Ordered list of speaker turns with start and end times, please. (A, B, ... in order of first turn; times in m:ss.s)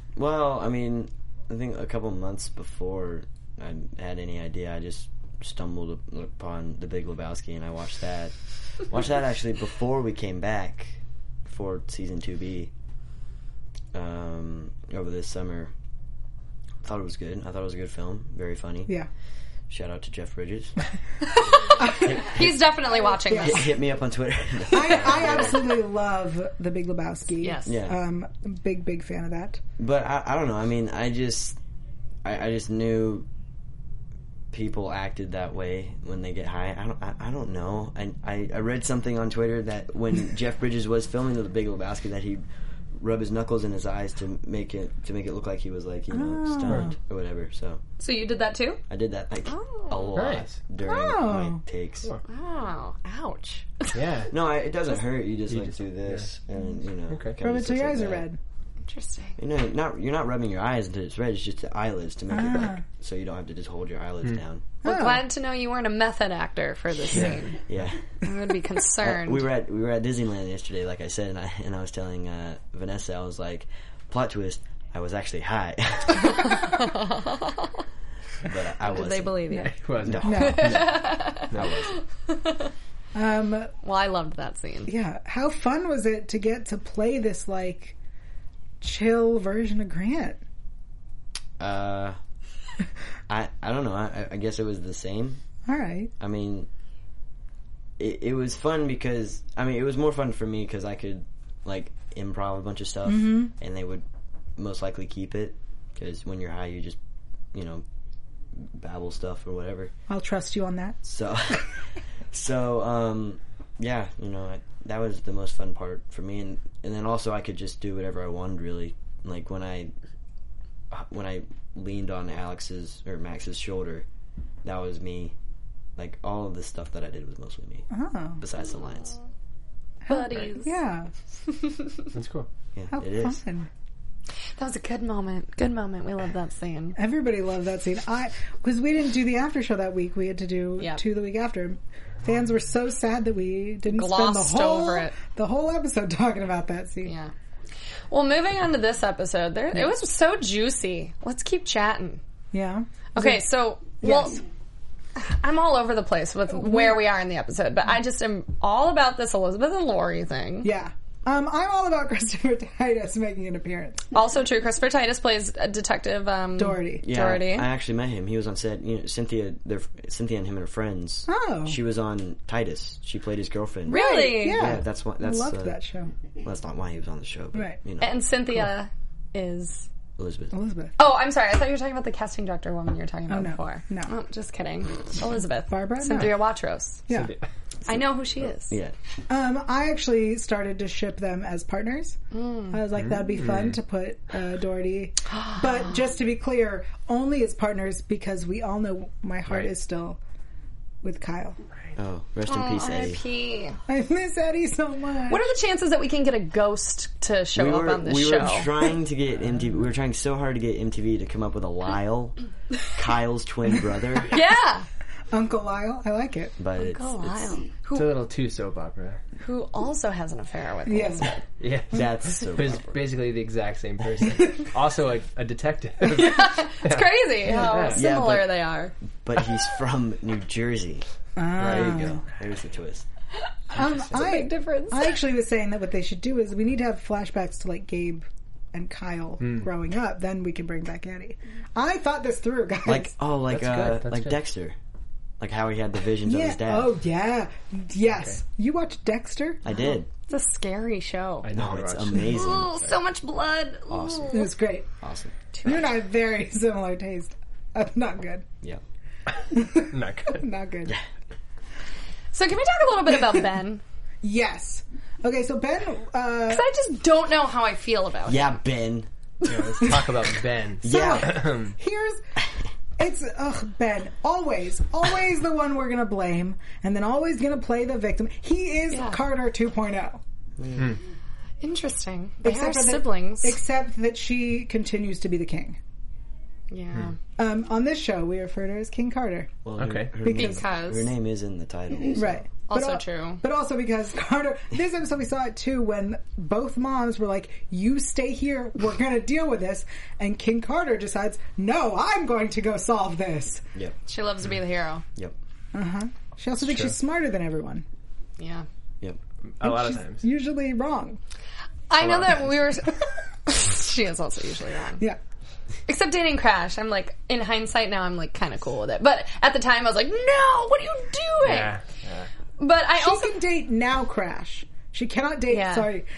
0:00.2-0:12.7 A
0:13.9-0:15.7 A
0:16.8-0:18.9 A
0:19.7-0:20.8 A
0:21.7-0:22.5 B
0:21.8-0:23.7 C
0:21.9-0:22.7 A
0:23.0-0:23.8 B
0:23.3-0:25.6 A
0:24.7-0:29.6 B
0:27.4-0:27.8 C
0:27.6-0:28.0 A
0:29.8-0:31.6 A
0:32.2-0:33.3 A
0:34.5-0:42.4 A
0:43.0-0:47.8 A
0:46.1-0:47.0 B
0:48.0-0:48.8 C
0:48.9-0:52.1 A
0:49.4-0:50.2 C
0:50.1-0:50.6 D
0:50.8-0:51.6 B
0:52.3-0:54.0 C
0:53.9-0:54.3 D
0:54.3-0:58.3 A
0:55.5-0:56.3 D
0:57.1-0:57.4 D
0:57.4-0:58.4 B
0:58.8-0:59.4 C
0:59.4-1:04.6 A
1:02.3-1:02.8 B
1:04.8-1:05.2 B
1:04.8-1:07.6 C
1:07.1-1:08.0 A
1:08.2-1:09.4 C
1:09.0-1:16.9 A
1:16.4-1:17.7 C
1:18.4-1:19.4 A
1:18.8-1:19.7 C
1:19.6-1:22.0 D
1:20.0-1:21.9 A
1:20.2-1:20.9 B
1:20.4-1:21.5 C
1:22.3-1:22.7 C
1:23.1-1:23.7 B
1:23.8-1:24.9 C
1:24.9-1:28.0 B
1:28.8-1:30.4 B
1:31.6-1:32.2 A
1:33.3-1:35.4 A
1:35.6-1:36.1 B
1:36.2-1:36.7 A
1:38.0-1:44.0 A
1:43.0-1:43.5 B
1:44.6-1:47.0 A
1:47.5-1:47.8 A
1:48.6-1:49.9 A
1:50.1-1:51.0 B
1:51.0-1:51.7 A
1:52.3-1:59.9 A
2:00.9-2:04.0 A
2:04.6-2:05.3 A
2:06.0-2:07.9 A
2:07.9-2:08.4 B
2:08.4-2:09.2 A
2:10.0-2:11.1 B
2:10.1-2:10.7 C
2:12.1-2:12.5 D
2:12.8-2:13.4 A
2:12.9-2:13.7 B
2:14.6-2:17.0 C
2:17.0-2:27.1 B
2:23.9-2:25.1 C
2:27.0-2:27.3 C
2:28.1-2:32.2 C
2:32.5-2:33.4 B
2:33.1-2:34.4 C
2:34.0-2:34.4 B
2:35.2-2:40.7 C
2:36.5-2:37.0 B
2:40.6-2:44.1 B
2:44.1-2:47.7 C
2:46.6-2:47.1 B
2:47.0-2:55.8 A
2:51.3-2:51.8 B
2:53.9-2:54.7 C
2:53.9-2:56.1 B
2:56.4-2:58.2 A
2:58.0-2:59.9 C
3:00.2-3:00.5 A
3:00.5-3:00.9 B
3:01.0-3:07.0 C
3:03.3-3:04.1 B
3:05.7-3:06.5 B
3:07.1-3:07.3 B
3:07.1-3:07.4 D
3:07.9-3:08.8 C
3:08.7-3:08.9 A
3:09.3-3:12.2 B
3:12.3-3:12.8 C
3:12.7-3:20.2 B
3:13.0-3:13.8 D
3:21.0-3:21.6 B
3:22.0-3:23.2 A
3:22.4-3:23.8 C
3:23.9-3:25.5 B
3:25.3-3:28.7 C
3:27.6-3:34.4 A
3:34.3-3:34.9 C
3:35.3-3:36.6 B
3:36.6-3:37.5 A
3:36.8-3:38.2 C
3:37.9-3:39.2 D
3:39.4-3:41.4 C
3:40.9-3:41.3 B
3:41.6-3:48.0 D
3:41.9-3:43.0 A
3:46.0-3:48.9 C
3:47.4-3:48.0 B
3:48.0-3:48.6 A
3:49.2-3:51.0 A
3:51.4-3:52.2 B
3:51.6-3:52.1 D
3:51.6-3:53.0 A
3:53.7-4:03.1 B
3:54.0-3:55.1 C
3:59.4-3:59.7 D
4:02.8-4:04.8 A
4:03.5-4:04.4 D
4:05.4-4:06.9 A
4:06.2-4:09.7 B
4:08.1-4:08.4 D
4:09.6-4:10.1 A
4:10.3-4:11.5 C
4:11.4-4:12.9 D
4:11.6-4:12.8 A
4:12.2-4:14.5 C
4:13.9-4:14.5 A
4:14.3-4:14.9 B
4:15.0-4:15.3 A
4:15.5-4:15.9 C
4:15.6-4:18.4 B
4:19.5-4:21.0 B
4:19.8-4:20.4 D
4:22.3-4:23.8 C
4:23.1-4:23.4 B
4:24.2-4:26.6 B
4:26.5-4:28.6 C
4:28.3-4:29.1 A
4:29.4-4:31.7 D
4:30.8-4:31.5 A
4:30.8-4:32.2 B
4:33.0-4:40.2 B
4:38.9-4:39.2 C
4:40.6-4:41.0 A
4:41.6-4:43.6 C
4:42.4-4:45.8 B
4:46.7-4:47.2 C
4:47.4-4:49.5 B
4:49.6-4:52.4 A
4:49.8-4:50.1 D
4:50.2-4:50.6 B
4:50.2-4:51.1 C
4:52.1-5:03.6 B
4:52.7-4:53.4 C
5:04.1-5:05.0 C
5:05.7-5:07.8 B
5:06.6-5:06.9 D
5:08.4-5:08.6 C
5:09.5-5:10.2 D
5:09.6-5:11.2 B
5:11.9-5:15.0 C
5:12.0-5:12.5 D
5:15.9-5:21.7 C
5:21.4-5:22.3 D
5:22.6-5:23.3 C
5:23.0-5:26.1 B
5:25.5-5:25.9 C